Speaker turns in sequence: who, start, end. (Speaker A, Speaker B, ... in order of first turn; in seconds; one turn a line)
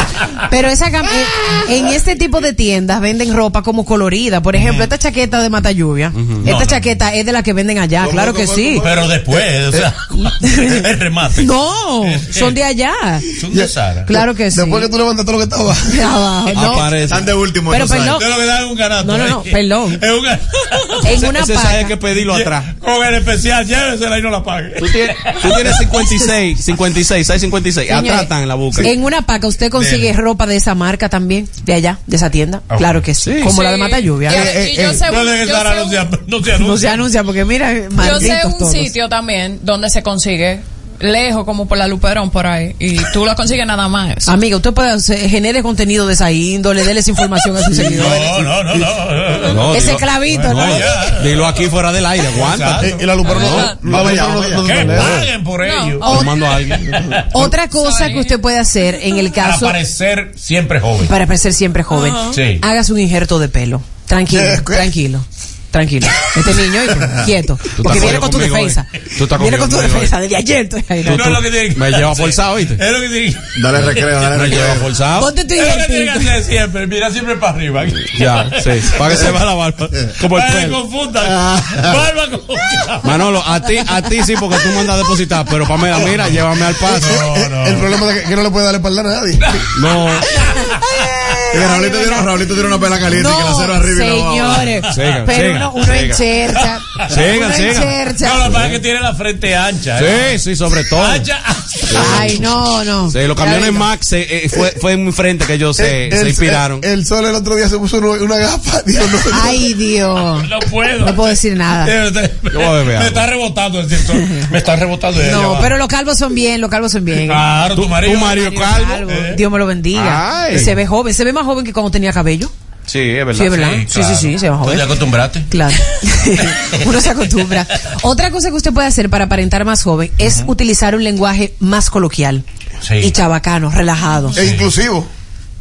Speaker A: 0.5-8.8
Speaker B: 4.5-4.9
Speaker C: 6.1-6.8
Speaker B: 6.4-6.9
Speaker D: 8.0-8.9
Speaker B: 8.8-12.6
Speaker A: 10.4-13.2
Speaker B: 13.3-14.1
Speaker E: 13.5-16.1
Speaker A: 14.1-14.9
Speaker A: 15.9-18.2
Speaker C: 16.5-17.2
Speaker D: 17.1-18.1
Speaker B: 18.0-21.3
Speaker A: 19.0-20.0
Speaker A: 21.0-22.0
Speaker C: 21.1-22.7
Speaker B: 22.2-25.9
Speaker C: 24.8-28.9
Speaker A: 27.9-34.6
Speaker B: 29.7-30.1
Speaker B: 32.7-33.1
Speaker C: 33.2-33.5
Speaker F: 33.4-36.0
Speaker E: 34.3-35.0
Speaker B: 35.0-37.1
Speaker A: 36.5-38.9
Speaker F: 38.0-44.3
Speaker A: 44.2-48.3
Speaker C: 47.7-48.0
Speaker B: 47.9-51.7
Speaker C: 49.5-52.9
Speaker A: 49.6-51.0
Speaker B: 52.3-57.5
Speaker E: 52.8-55.2
Speaker F: 53.2-53.8
Speaker D: 53.4-55.2
Speaker F: 55.6-56.1
Speaker A: 56.0-56.4
Speaker C: 56.0-56.9
Speaker A: 57.3-59.8
Speaker F: 57.8-58.4
Speaker B: 59.4-61.1
Speaker A: 61.0-71.4
Speaker F: 61.9-62.4
Speaker B: 62.3-62.6
Speaker E: 64.3-64.9
Speaker C: 67.7-70.1
Speaker C: 71.0-72.8
Speaker B: 71.0-79.5
Speaker D: 73.5-74.9
Speaker C: 74.3-75.3
Speaker A: 75.2-76.4
Speaker C: 78.1-80.8
Speaker B: 80.1-83.2
Speaker C: 83.0-87.2
Speaker B: 86.0-87.9
Speaker E: 86.9-89.6
Speaker C: 89.7-90.3
Speaker A: 90.4-92.3
Speaker D: 91.5-94.7
Speaker A: 93.0-98.5
Speaker B: 94.8-95.3
Speaker C: 94.9-96.2
Speaker B: 96.5-100.4
Speaker C: 97.1-98.8
Speaker C: 100.0-101.3
Speaker B: 100.9-102.5
Speaker C: 101.9-106.8
Speaker A: 101.9-103.9
Speaker E: 105.8-109.7
Speaker A: 109.3-111.9
Speaker B: 110.4-115.8
Speaker C: 112.5-113.3
Speaker A: 114.0-114.5
Speaker A: 115.2-117.5
Speaker B: 117.1-119.4
Speaker C: 117.8-119.0
Speaker A: 118.1-122.5
Speaker C: 119.9-120.8
Speaker C: 122.9-123.6
Speaker A: 123.3-125.0
Speaker B: 123.4-125.6
Speaker A: 125.5-132.4
Speaker B: 126.4-127.5
Speaker B: 130.2-130.5
Speaker B: 132.8-133.2
Speaker A: 133.0-134.4
Speaker B: 134.3-134.7
Speaker E: 134.3-135.1